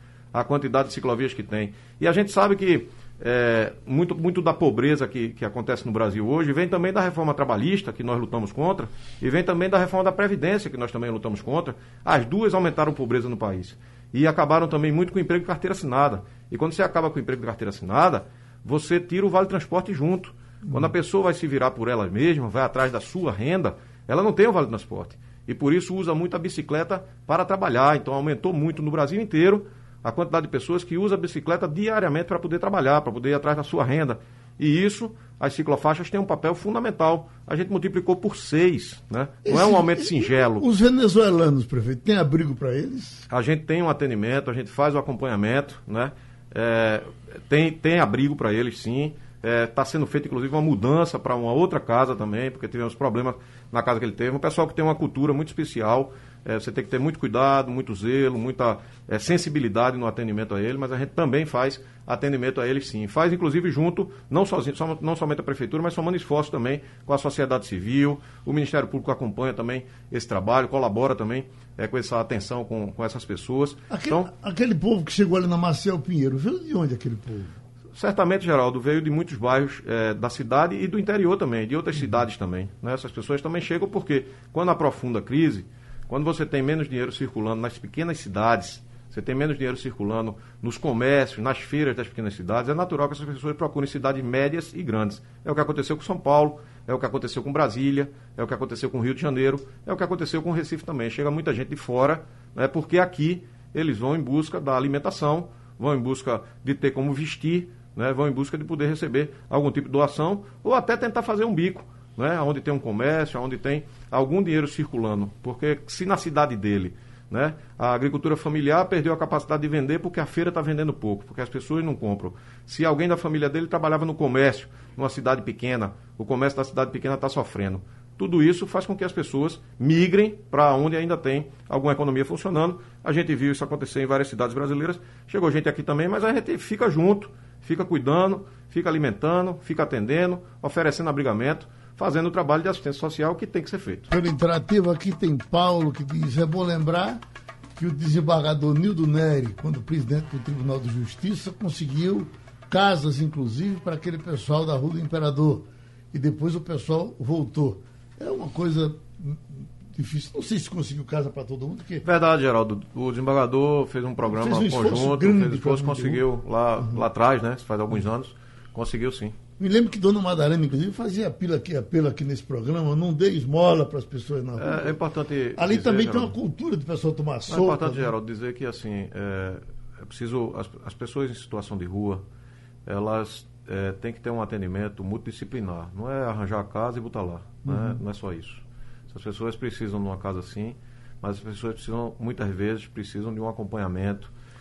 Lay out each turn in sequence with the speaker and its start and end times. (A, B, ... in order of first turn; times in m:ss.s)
0:00.3-0:40.6 A
0:39.4-0:43.2 B
0:43.3-1:14.3 A
1:13.9-1:17.5 B
1:17.9-2:24.1 A
2:24.1-2:27.2 B
2:27.8-2:42.0 B
2:42.0-2:49.3 A
2:44.2-2:46.2 B
2:49.6-2:54.9 B
2:54.6-2:56.3 A
2:55.6-2:58.1 B
2:57.5-3:02.2 A
3:02.8-3:14.3 A
3:07.7-3:08.0 B